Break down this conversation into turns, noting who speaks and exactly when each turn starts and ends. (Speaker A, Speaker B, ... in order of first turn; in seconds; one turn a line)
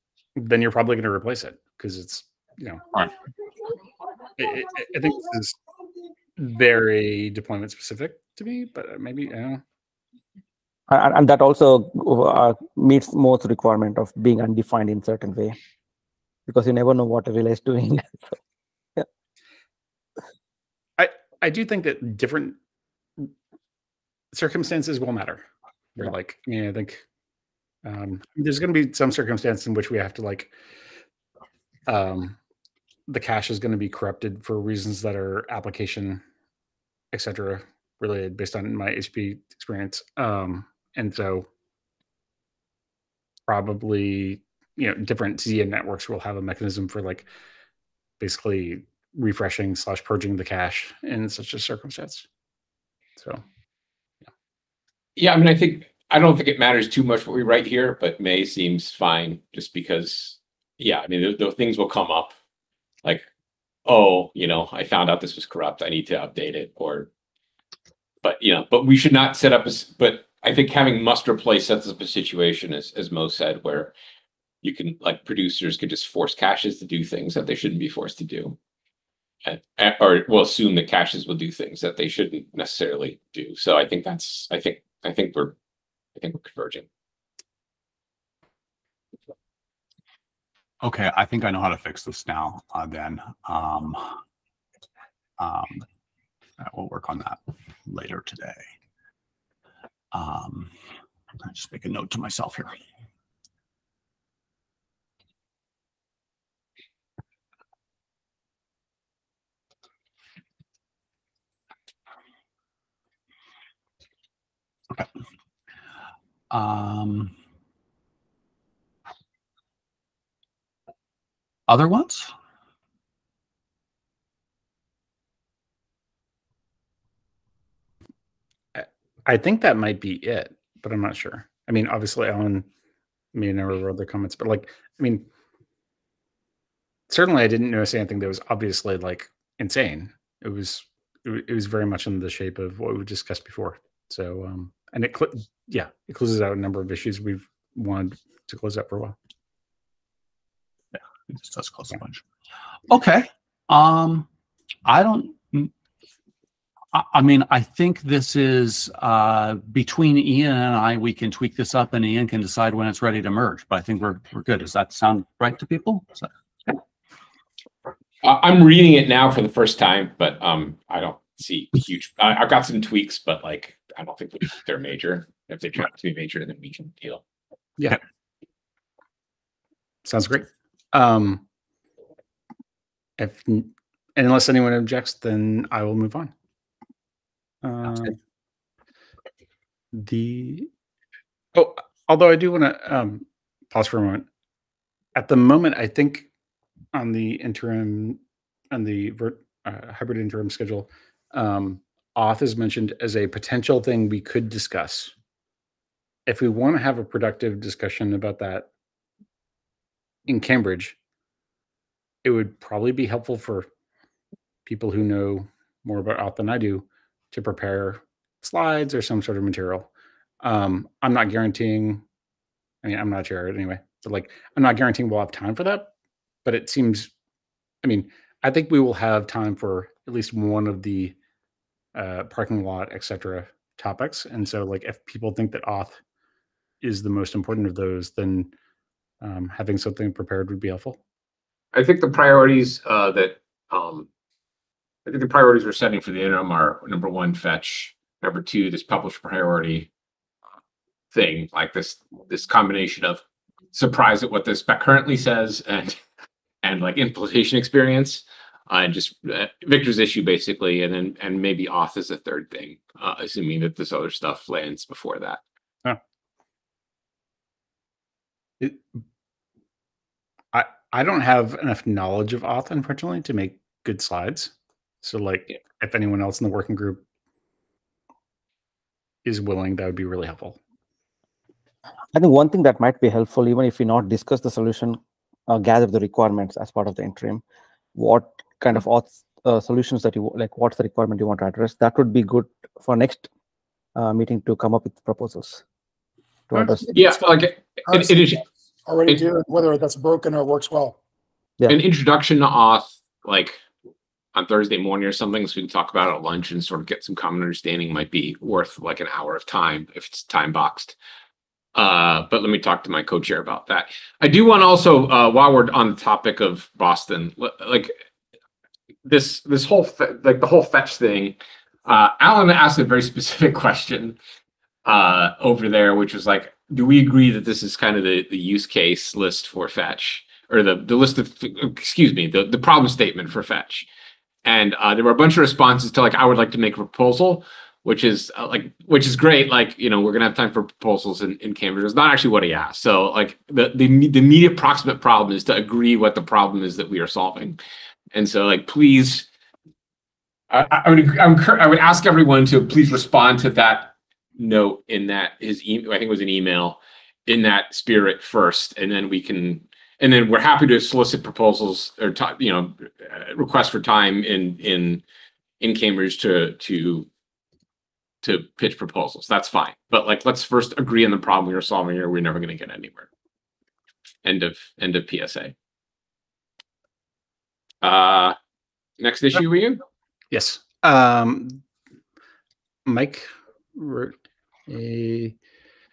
Speaker A: 0.3-2.9
Speaker A: 4.4-5.6
Speaker A: 6.4-9.6
Speaker B: 10.9-15.6
Speaker B: 16.5-18.4
Speaker A: 21.0-22.6
Speaker A: 24.3-27.0
Speaker A: 27.8-30.5
Speaker A: 31.9-32.4
Speaker A: 33.1-36.2
Speaker A: 37.1-41.5
Speaker A: 43.5-47.3
Speaker A: 48.2-52.2
Speaker A: 53.2-53.4
Speaker C: 55.1-62.3
Speaker C: 63.8-67.1
Speaker C: 68.2-73.9
Speaker C: 74.6-78.5
Speaker C: 79.4-85.5
Speaker C: 86.2-86.8
Speaker D: 90.8-94.1
Speaker D: 95.4-95.8
Speaker D: 96.6-98.6
Speaker D: 100.1-100.7
Speaker D: 101.4-102.8
Speaker D: 116.5-117.3
Speaker D: 121.7-122.3
Speaker A: 128.7-132.7
Speaker A: 133.3-135.3
Speaker A: 137.1-149.2
Speaker D: 150.9-152.2
Speaker D: 152.9-154.3
Speaker D: 154.8-155.7
Speaker D: 156.9-166.3
Speaker C: 168.2-177.2
Speaker A: 180.0-181.4
Speaker A: 183.2-186.3
Speaker A: 187.6-188.2
Speaker A: 189.9-190.7
Speaker A: 191.5-194.3
Speaker A: 195.1-196.3
Speaker A: 196.9-205.1
Speaker A: 206.2-208.7
Speaker A: 210.2-211.0
Speaker A: 212.2-213.7
Speaker A: 214.6-219.9
Speaker A: 220.4-222.0
Speaker A: 222.8-225.9
Speaker A: 226.4-227.1
Speaker A: 227.8-231.2
Speaker A: 231.9-236.0
Speaker A: 236.8-238.5
Speaker A: 239.2-241.0
Speaker C: 241.7-244.1
Speaker C: 245.0-249.9
Speaker C: 251.1-256.0
Speaker C: 256.6-265.4
Speaker A: 268.6-269.0
Speaker A: 270.5-277.0
Speaker A: 279.2-280.6
Speaker B: 282.1-287.4
Speaker B: 287.9-293.3
Speaker B: 293.9-295.6
Speaker B: 296.5-296.9
Speaker E: 296.6-301.0
Speaker C: 296.9-298.4
Speaker C: 301.7-303.6
Speaker C: 304.3-310.9
Speaker C: 311.7-317.9
Speaker C: 319.0-324.2
Speaker C: 324.8-333.9
Speaker C: 334.4-347.6
Speaker C: 348.1-349.3
Speaker C: 350.5-365.0
Speaker C: 365.6-367.1
Speaker C: 368.2-373.1
Speaker C: 374.2-375.5
Speaker C: 377.8-378.3
Speaker C: 379.0-379.8
Speaker A: 380.3-381.6
Speaker A: 382.8-384.1
Speaker A: 384.7-385.4